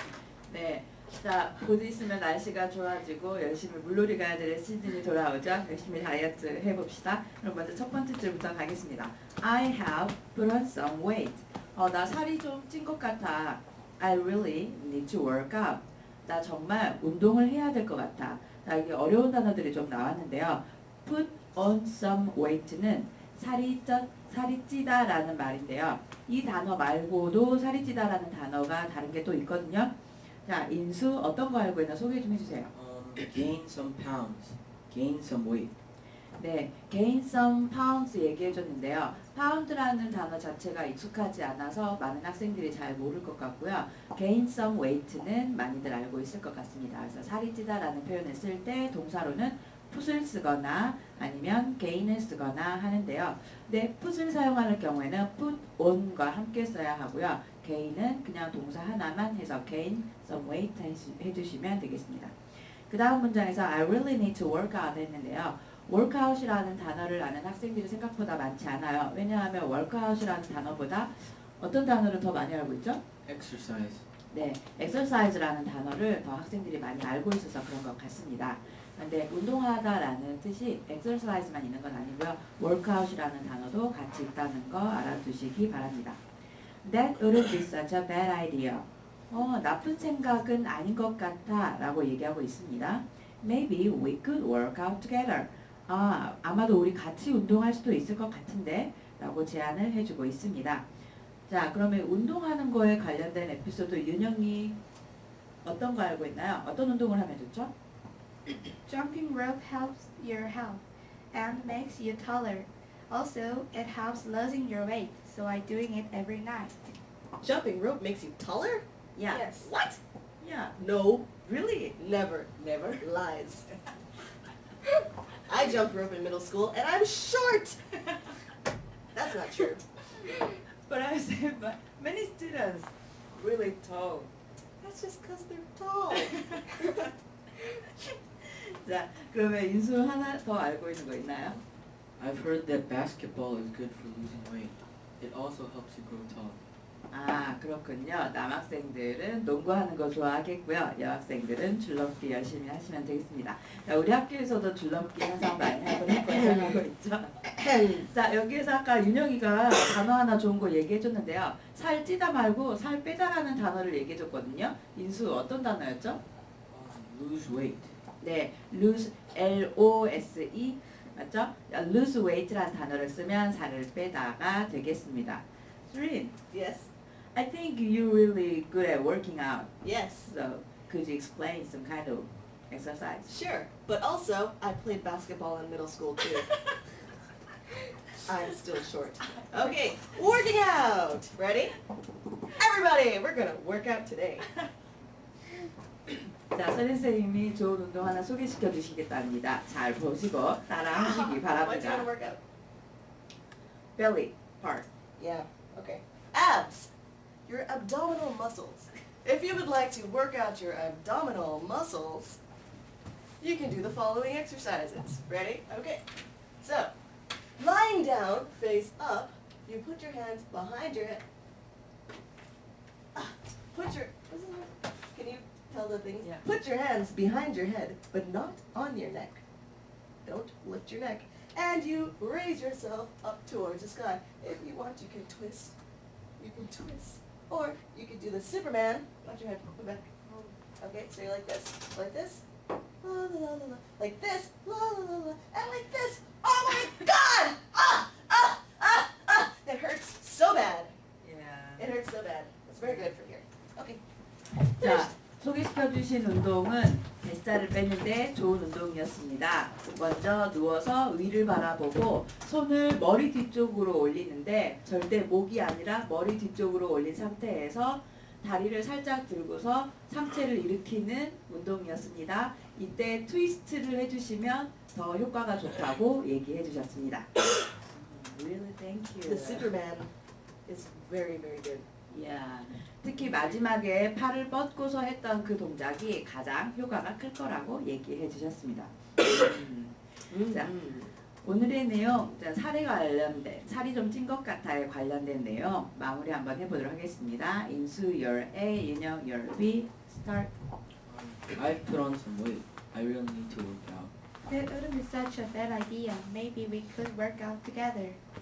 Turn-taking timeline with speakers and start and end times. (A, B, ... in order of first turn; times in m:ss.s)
0:00.5-0:32.7 A
0:32.7-0:35.7 B
0:36.4-1:02.4 A
1:02.9-1:13.0 A
1:13.3-1:14.0 B
1:14.3-1:26.2 A
1:26.8-1:40.8 A
1:41.5-1:44.8 A
1:45.6-1:47.7 A
1:48.9-1:56.9 C
1:57.4-1:58.8 D
1:59.2-1:59.5 A
1:59.3-1:59.7 C
1:59.6-2:00.0 D
2:00.4-2:02.0 A
2:00.8-2:01.3 D
2:02.0-2:03.7 D
2:02.6-2:03.0 A
2:05.5-2:07.8 D
2:09.1-2:09.8 D
2:10.8-2:14.3 A
2:14.8-2:17.1 D
2:16.4-2:17.0 A
2:18.4-2:21.6 A
2:22.2-2:26.6 B
2:27.1-2:37.4 A
2:36.3-2:36.8 D
2:37.5-2:38.1 D
2:37.9-2:46.2 A
2:46.7-2:47.9 B
2:48.2-2:56.4 A
2:56.5-2:56.9 D
2:57.3-2:59.7 A
2:59.8-3:00.3 D
3:00.2-3:03.4 A
3:03.3-3:06.5 D
3:08.2-3:11.8 D
3:12.5-3:14.5 D
3:16.5-3:22.1 A
3:20.9-3:22.4 D
3:24.0-3:24.9 A
3:25.2-3:26.9 D
3:27.5-3:32.4 D
3:33.4-3:36.0 D
3:36.6-3:37.0 D
3:37.6-3:41.2 D
3:43.2-3:49.4 D
3:50.2-3:55.8 D
3:56.4-4:02.4 D
4:03.0-4:10.9 D
4:11.2-4:11.9 A
4:11.8-4:14.0 D
4:12.8-4:13.1 A
4:14.8-4:15.1 D
4:14.8-4:37.3 A
4:37.9-4:39.7 A
4:39.2-4:40.1 D
4:40.7-4:41.9 D
4:42.1-4:50.7 A
4:50.3-4:51.1 D
4:51.4-5:00.5 A
5:01.1-5:04.1 B
5:04.5-5:08.2 C